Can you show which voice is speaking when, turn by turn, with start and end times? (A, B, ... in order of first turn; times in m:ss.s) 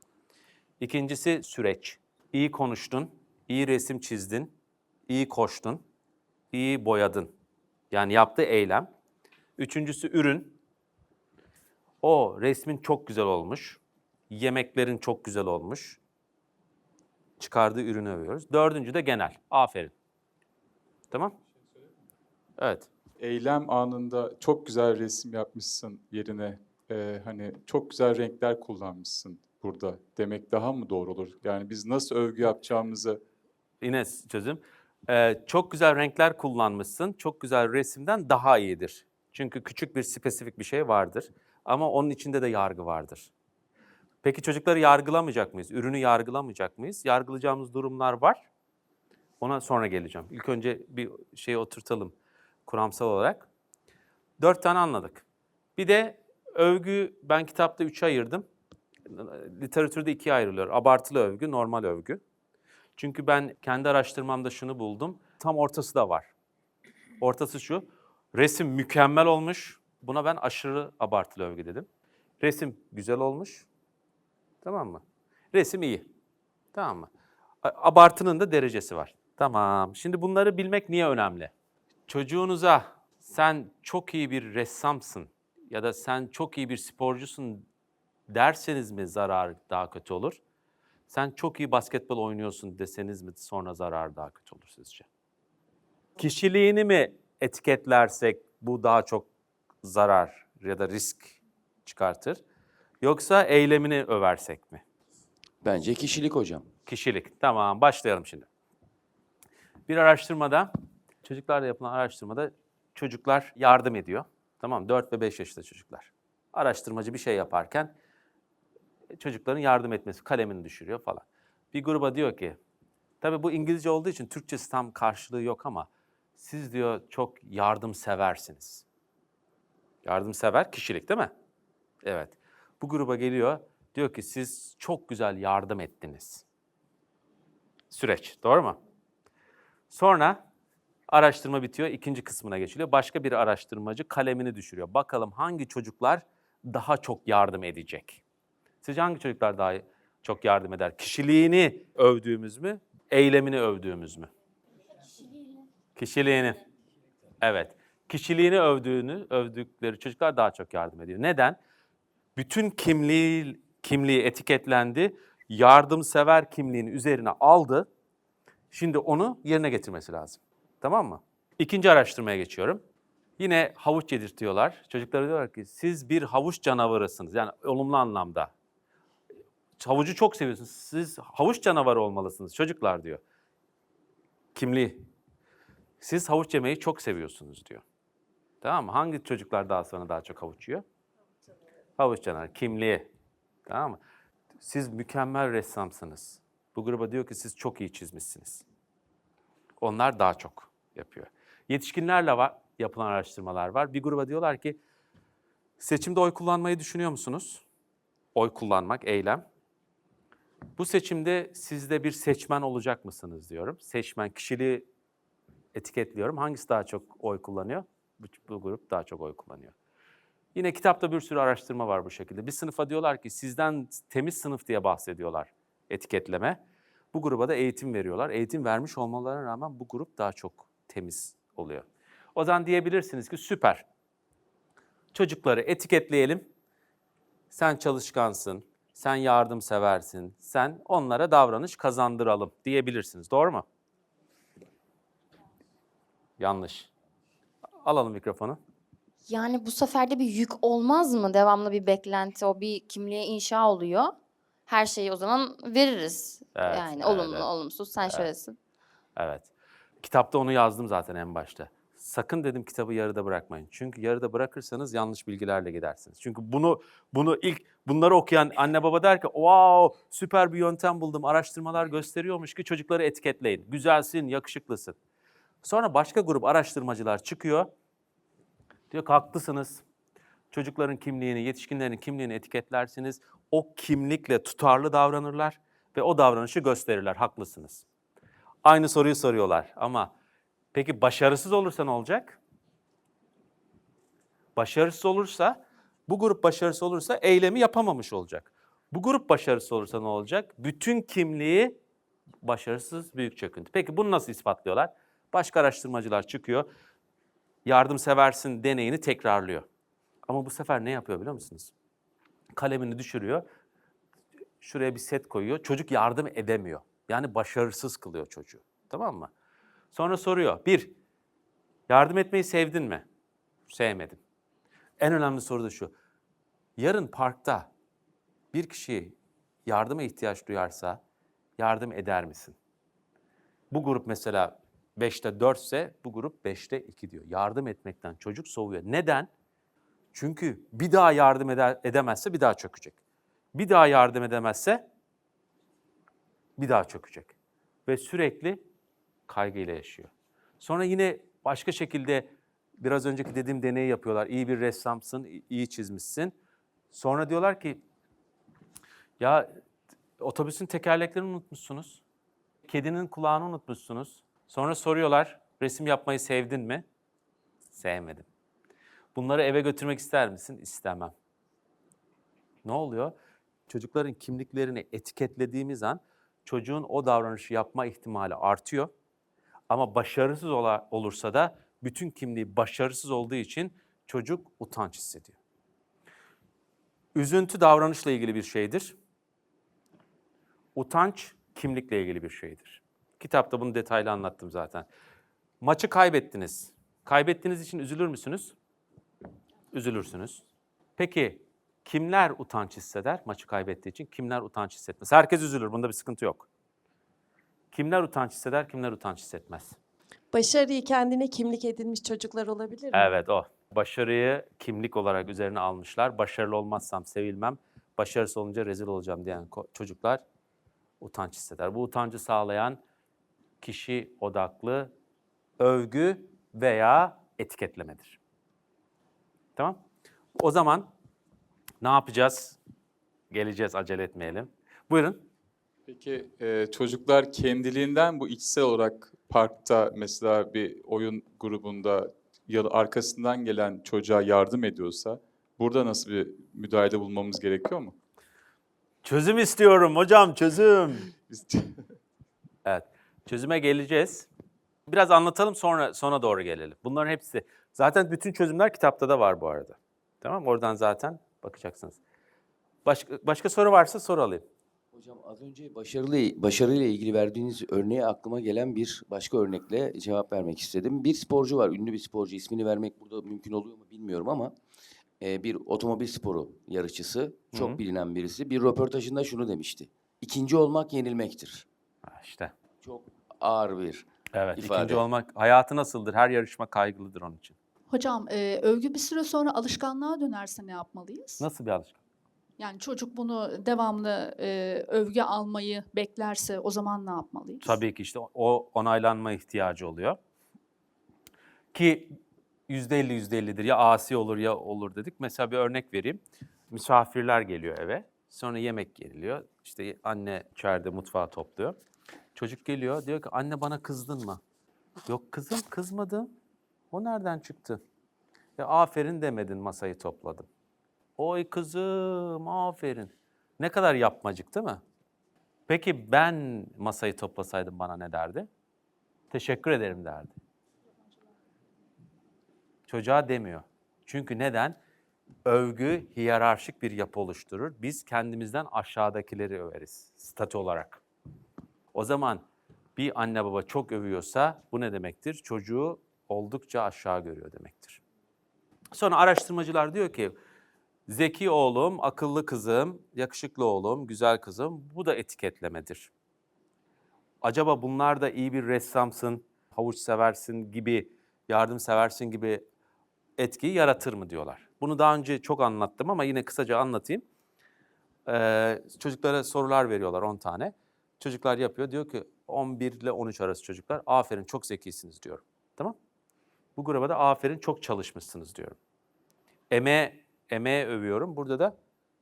0:00.8-0:04.5 A
0:05.1-0:05.8 A
0:06.5-0:07.3 A
0:07.9-0:08.9 A
0:09.6-0:10.6 A
0:12.0-0:16.0 A
0:17.4-0:19.9 A
0:22.6-0:22.9 A
0:23.2-0:33.2 B
0:33.8-0:43.3 A
0:44.2-0:48.4 A
0:49.4-0:52.1 A
0:52.7-0:53.5 A
0:54.4-0:55.2 A
0:55.8-0:58.4 A
0:59.1-1:02.2 A
1:03.0-1:06.3 A
1:07.2-1:11.9 A
1:12.4-1:13.7 A
1:14.6-1:15.0 A
1:15.5-1:16.1 A
1:16.7-1:17.1 A
1:17.6-1:21.5 A
1:22.1-1:27.6 A
1:28.3-1:30.4 A
1:31.1-1:35.1 A
1:36.2-1:39.3 A
1:39.8-1:42.4 A
1:43.0-1:44.8 A
1:45.6-1:46.7 C
1:46.9-1:48.5 A
1:49.9-1:50.7 A
1:51.2-1:57.9 A
1:59.2-2:02.6 A
2:03.2-2:08.8 A
2:10.0-2:11.3 A
2:12.0-2:16.4 A
2:17.9-2:18.8 A
2:19.9-2:20.4 A
2:21.1-2:28.2 A
2:28.8-2:34.3 A
2:36.0-2:36.6 A
2:37.4-2:41.6 A
2:42.4-2:47.9 A
2:48.7-2:52.8 A
2:53.4-2:58.5 A
2:59.8-3:03.2 A
3:04.6-3:05.1 A
3:06.0-3:07.8 A
3:08.6-3:10.8 A
3:12.0-3:13.1 A
3:13.7-3:14.0 A
3:14.6-3:18.6 A
3:19.8-3:24.8 A
3:25.8-3:27.6 A
3:28.4-3:29.4 A
3:30.8-3:34.9 A
3:35.8-3:39.8 A
3:40.6-3:46.6 A
3:47.1-3:53.9 A
3:55.1-3:56.4 A
3:57.5-4:03.6 A
4:06.4-4:06.9 A
4:07.8-4:08.6 A
4:09.3-4:14.1 D
4:14.7-4:18.6 D
4:16.6-4:17.5 A
4:19.2-4:19.5 A
4:20.0-4:35.0 A
4:35.6-4:37.7 A
4:38.9-4:39.8 A
4:40.5-4:47.9 A
4:48.6-4:50.1 A
4:50.7-4:52.4 A
4:54.6-5:01.8 A
5:02.4-5:06.7 A
5:07.6-5:09.7 A
5:10.3-5:11.7 A
5:12.6-5:13.4 A
5:14.6-5:19.3 A
5:19.9-5:20.9 A
5:21.9-5:23.0 A
5:23.7-5:24.2 A
5:25.0-5:25.9 A
5:26.8-5:27.7 A
5:28.5-5:31.0 A
5:31.6-5:32.6 A
5:33.7-5:39.3 A
5:40.1-5:43.0 A
5:43.5-5:44.8 A
5:46.6-5:47.3 A
5:47.9-5:48.6 A
5:49.3-5:56.4 A
5:56.9-5:57.8 A
5:59.2-5:59.5 A
6:00.2-6:02.0 A
6:02.7-6:06.8 A
6:07.7-6:08.3 A
6:09.2-6:11.1 A
6:12.6-6:13.2 A
6:13.7-6:18.9 A
6:19.7-6:25.4 A
6:27.2-6:29.0 A
6:30.8-6:34.8 A
6:35.6-6:38.6 A
6:39.7-6:40.4 A
6:41.0-6:46.5 A
6:47.7-6:49.8 A
6:50.3-6:53.1 E
6:52.9-7:00.2 A
7:01.0-7:02.8 A
7:03.6-7:04.9 A
7:05.6-7:08.2 A
7:10.4-7:10.9 A
7:11.8-7:12.6 A
7:13.3-7:15.2 A
7:15.9-7:28.0 B
7:29.0-7:31.1 A
7:31.3-7:31.8 B
7:32.6-7:34.3 A
7:34.9-7:42.0 A
7:42.8-7:44.4 A
7:44.9-7:54.6 C
7:55.2-8:01.7 C
7:57.5-7:57.8 A
8:02.1-8:02.5 A
8:02.8-8:05.0 C
8:04.3-8:07.6 A
8:07.9-8:11.4 F
8:11.4-8:12.0 A
8:12.6-8:17.8 F
8:17.6-8:20.2 A
8:21.7-8:22.2 A
8:22.7-8:26.2 A
8:26.7-8:31.8 A
8:32.4-8:34.4 A
8:35.1-8:36.3 A
8:36.9-8:37.8 A
8:38.6-8:40.5 A
8:41.2-8:44.8 A
8:45.7-8:48.5 A
8:49.3-8:50.3 A
8:52.9-8:54.8 A
8:55.5-9:01.0 A
9:01.9-9:02.4 A
9:03.0-9:08.0 A
9:08.9-9:10.4 A
9:11.1-9:16.1 A
9:17.4-9:22.6 A
9:23.4-9:27.2 A
9:28.3-9:36.0 A
9:36.8-9:38.8 A
9:39.7-9:41.8 A